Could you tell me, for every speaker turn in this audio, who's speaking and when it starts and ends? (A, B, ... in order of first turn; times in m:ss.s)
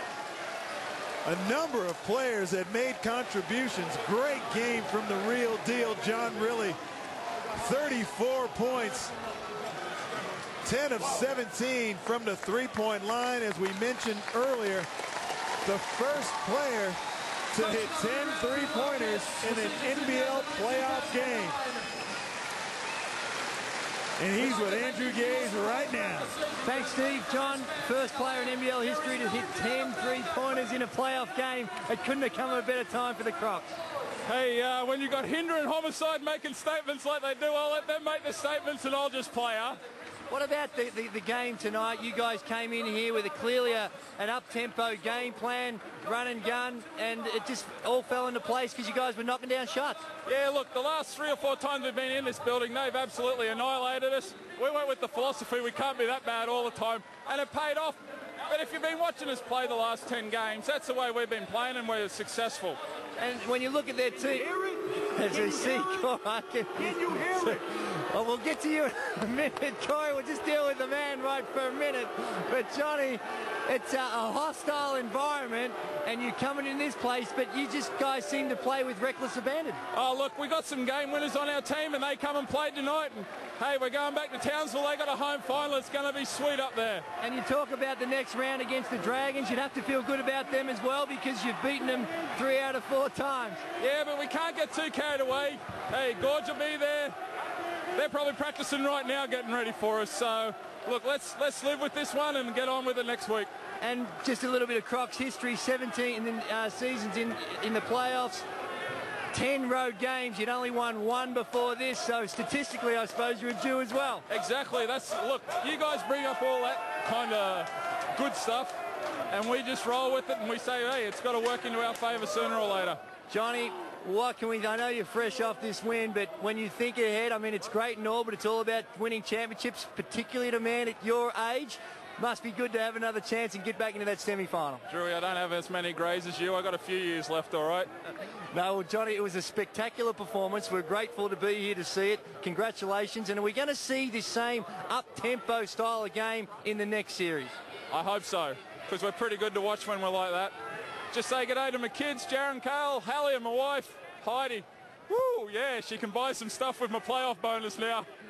0:01.2-0:06.8 A
0:07.6-0:09.1 A
0:10.6-0:14.9 A
0:15.6-0:17.0 A
0:17.5-0:21.6 A
0:24.2-0:26.3 A
0:26.6-0:33.8 B
0:34.2-0:39.8 C
0:40.3-0:50.0 B
0:50.2-1:02.8 C
1:03.2-1:19.8 B
1:19.9-1:27.0 C
1:27.2-1:33.6 B
1:33.8-1:37.2 C
1:37.9-1:43.5 C
1:43.8-1:48.4 B
1:49.3-1:54.2 B
1:54.3-1:58.8 C
1:59.3-2:03.0 C
2:03.3-2:14.8 B
2:14.9-2:17.9 C
2:18.5-2:27.6 B
2:27.9-2:30.5 C
2:31.1-2:38.1 C